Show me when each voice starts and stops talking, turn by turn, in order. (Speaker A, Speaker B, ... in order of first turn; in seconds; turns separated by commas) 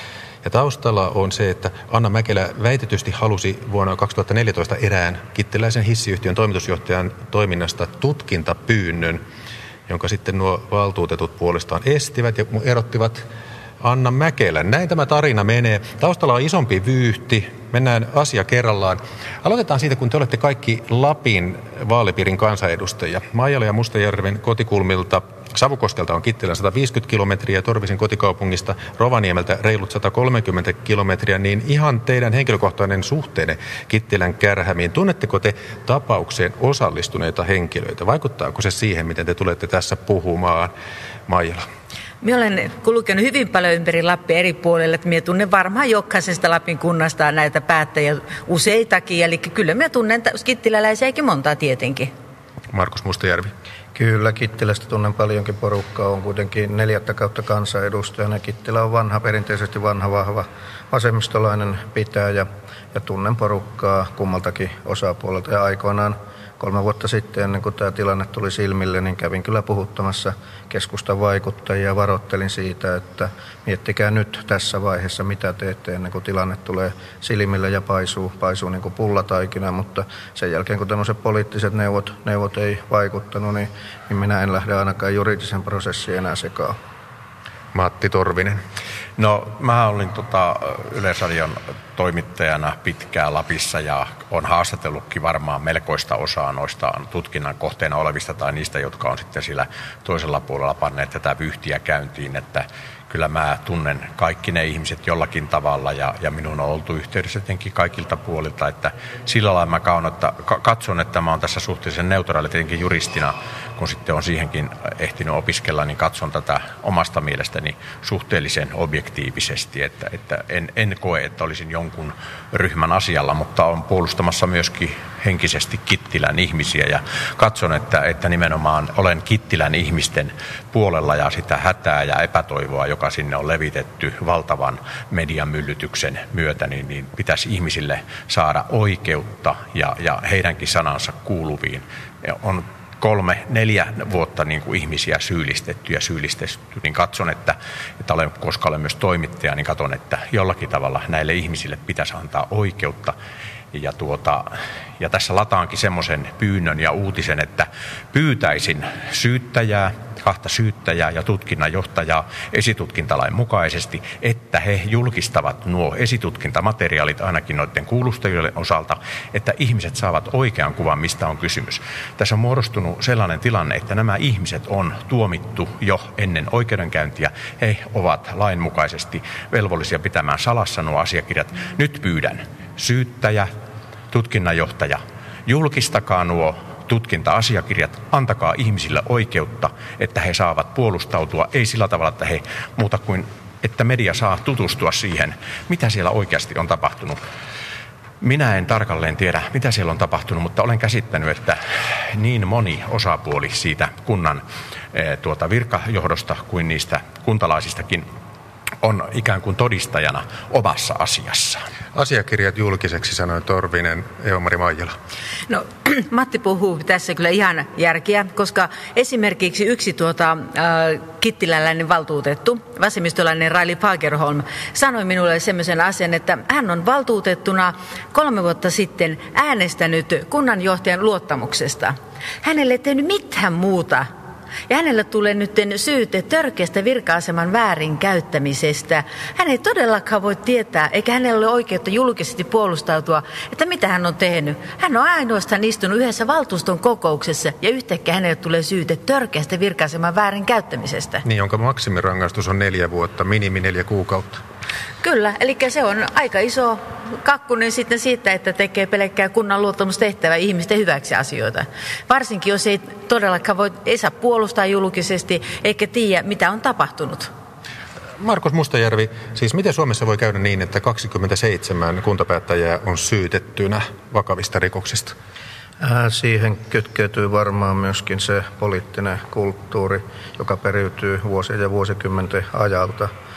Speaker A: 0.4-9.2, Speaker A: 9.9-13.2, Speaker A: 13.8-40.7, Speaker A: 41.3-41.6, Speaker B: 42.2-52.1, Speaker A: 52.7-53.5, Speaker C: 53.9-86.8, Speaker A: 87.7-88.6, Speaker D: 89.2-153.2, Speaker D: 153.7-183.5, Speaker D: 184.1-197.2, Speaker D: 198.2-201.6, Speaker D: 202.1-208.1, Speaker D: 208.8-211.6, Speaker A: 211.9-214.9, Speaker B: 215.5-234.1, Speaker B: 234.7-251.2, Speaker A: 251.2-254.4, Speaker B: 255.0-267.3, Speaker A: 268.2-275.1, Speaker C: 275.8-283.1